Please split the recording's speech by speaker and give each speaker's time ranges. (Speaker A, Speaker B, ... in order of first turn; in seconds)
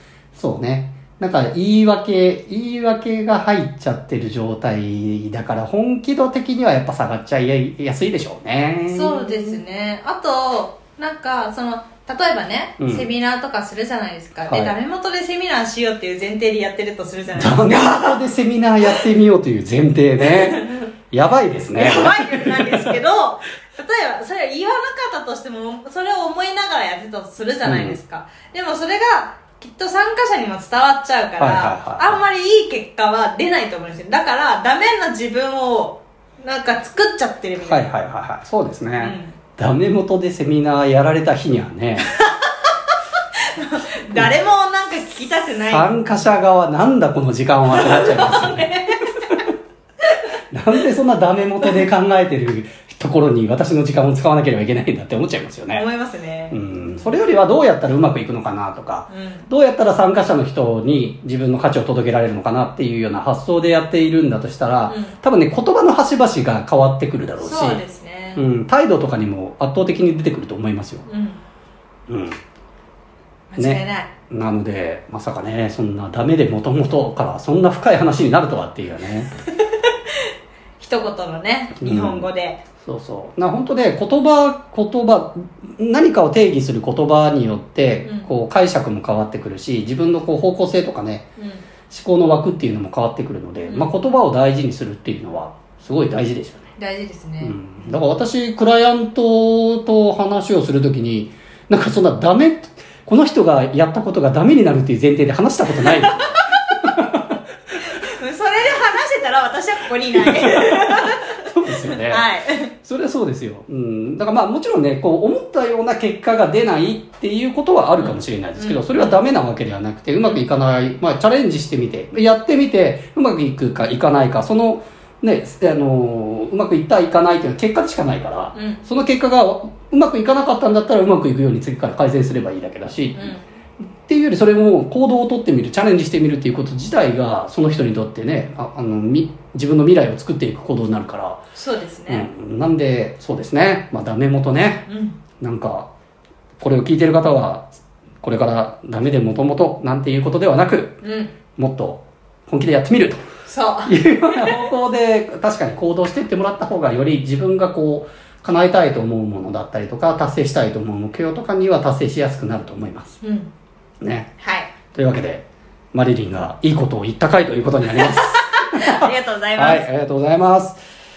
Speaker A: 0.3-9.6, 12.8-13.1, 14.5-14.7, 17.4-23.0, 27.6-28.0, 31.4-32.2, 37.6-42.1, 45.7-48.7, 50.5-55.8, 56.5-67.8, 68.4-71.0, 72.1-72.4, 73.6-79.3, 81.8-82.3, 82.8-91.3, 91.9-96.7, 97.4-106.2, 106.8-107.4, 110.1-112.3, 112.8-133.4, 134.0-141.4, 142.1-144.9, 145.4-145.9, 146.6-147.7, 148.2-151.0, 151.6-153.2, 153.8-163.2, 164.0-164.3, 164.9-170.8
Speaker B: 8.9-18.2, 20.3-20.7, 21.7-37.9, 39.0-39.4, 42.0-42.5, 43.5-46.0, 47.7-49.4, 55.7-56.6, 59.1-59.5, 64.9-65.2, 67.4-68.5, 71.1-71.4, 73.5-74.1, 79.7-80.1, 80.8-82.6, 88.0-88.3, 91.4-91.7, 93.7-94.0, 96.8-98.0, 105.8-106.5, 107.9-112.7, 118.0-119.2, 128.6-128.8, 133.2-133.4, 141.6-142.3, 144.9-145.2, 151.0-151.3, 153.5-154.7, 163.2-163.5, 164.4-164.7, 168.0-169.9